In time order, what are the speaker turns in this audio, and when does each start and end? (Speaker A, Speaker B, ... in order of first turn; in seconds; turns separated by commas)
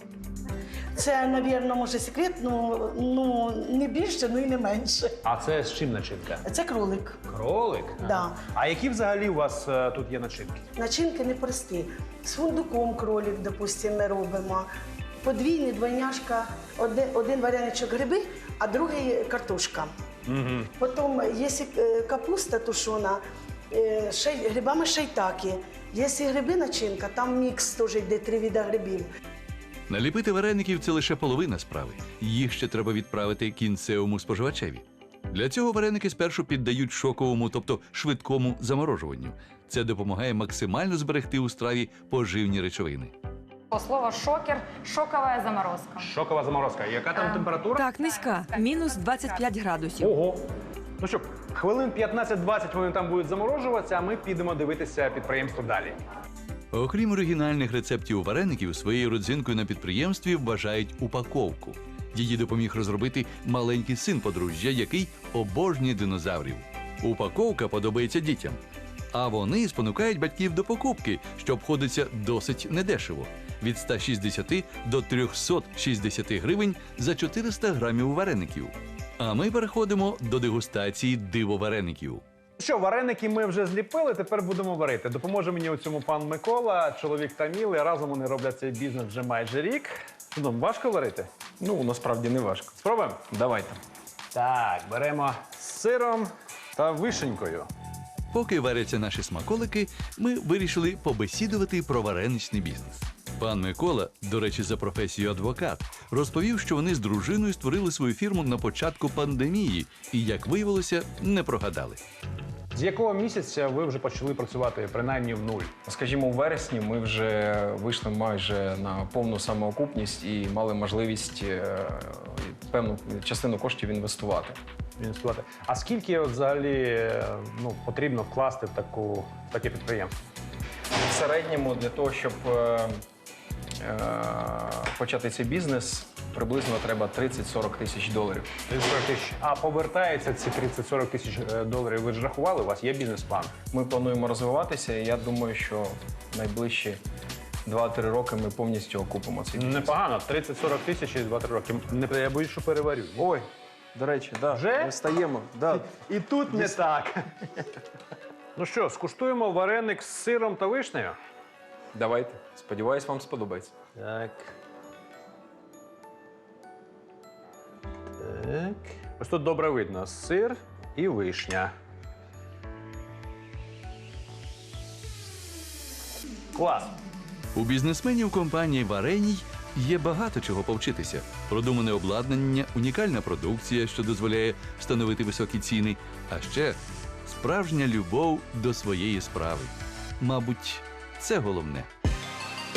Speaker A: 0.9-5.2, Speaker B: 5.2-6.4, Speaker A: 6.5-7.2, Speaker B: 7.3-10.6, Speaker A: 8.0-8.4, Speaker A: 10.8-14.7, Speaker A: 15.2-19.9, Speaker B: 20.3-20.7, Speaker A: 20.8-23.2, Speaker A: 23.7-29.1, Speaker C: 29.9-43.1, Speaker D: 43.7-46.0, Speaker B: 46.0-48.0, Speaker E: 47.1-50.1, Speaker D: 48.0-49.4, Speaker B: 50.0-50.4, Speaker B: 51.0-56.0, Speaker C: 56.7-68.6, Speaker C: 69.1-82.2, Speaker B: 82.6-91.3, Speaker F: 91.6-92.8, Speaker B: 92.8-93.2, Speaker F: 93.3-93.8, Speaker B: 94.3-97.7, Speaker C: 98.3-112.0, Speaker B: 112.7-115.7, Speaker F: 115.9-124.6, Speaker B: 125.0-130.1, Speaker F: 131.1-133.0, Speaker F: 133.8-138.5, Speaker B: 138.7-143.5, Speaker F: 143.7-147.0, Speaker F: 147.7-149.9, Speaker B: 149.5-153.3, Speaker F: 153.2-156.8, Speaker B: 154.5-154.9, Speaker B: 155.9-157.2, Speaker B: 158.6-161.2, Speaker F: 161.9-163.7, Speaker B: 164.0-164.5, Speaker B: 168.2-171.7, Speaker B: 176.6-176.9, Speaker C: 177.6-191.9